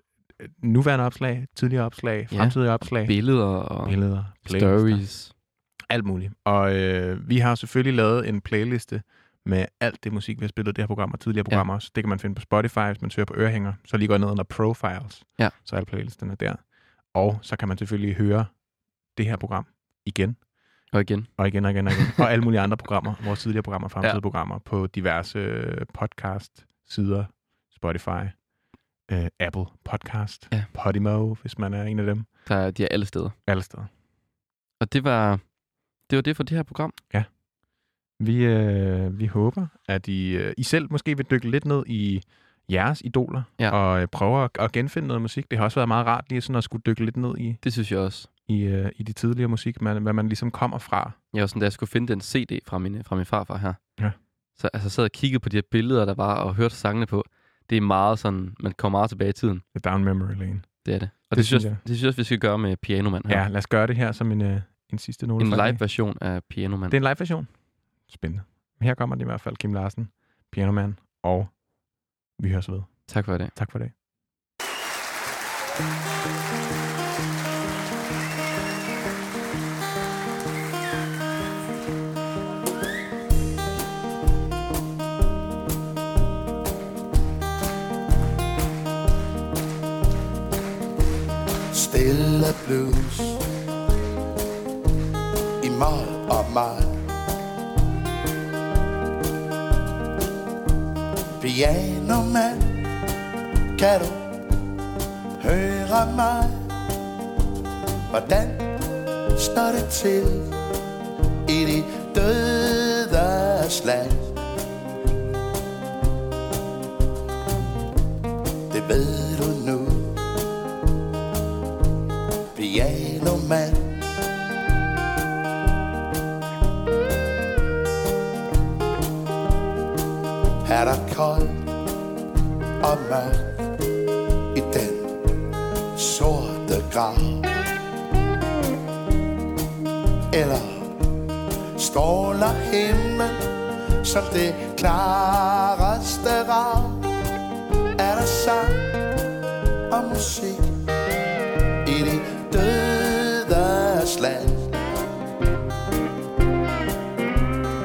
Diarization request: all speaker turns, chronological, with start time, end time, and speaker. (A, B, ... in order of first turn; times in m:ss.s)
0:00.4-0:28.4 A
0:02.3-0:05.3 B
0:20.9-0:22.2 B
0:29.1-0:32.4 A
0:32.4-0:33.4 B
0:33.4-0:33.9 A
0:34.8-0:35.5 B
0:36.0-0:37.0 B
0:37.1-0:37.4 A
0:38.1-0:47.6 A
0:47.6-0:48.3 B
0:48.4-0:51.2 A
0:51.3-0:53.8 B
0:54.6-0:59.6 B
0:59.7-1:01.8 A
1:00.8-1:03.4 B
1:03.3-1:05.8 A
1:05.4-1:07.0 B
1:06.9-1:11.7 A
1:12.3-1:13.9 A
1:13.1-1:13.5 B
1:31.7-1:33.4 C
1:35.6-1:36.9 C
1:41.4-1:42.8 C
1:43.8-1:44.3 C
1:45.4-1:46.6 C
1:48.1-1:48.7 C
1:49.4-1:50.5 C
1:51.4-1:54.3 C
1:58.7-2:00.1 C
2:02.5-2:04.0 C
2:10.6-2:11.6 C
2:12.8-2:13.5 C
2:14.5-2:15.1 C
2:16.0-2:17.4 C
2:20.3-2:20.9 C
2:21.8-2:23.5 C
2:24.0-2:27.0 C
2:28.0-2:28.9 C
2:29.9-2:30.7 C
2:31.8-2:34.7 C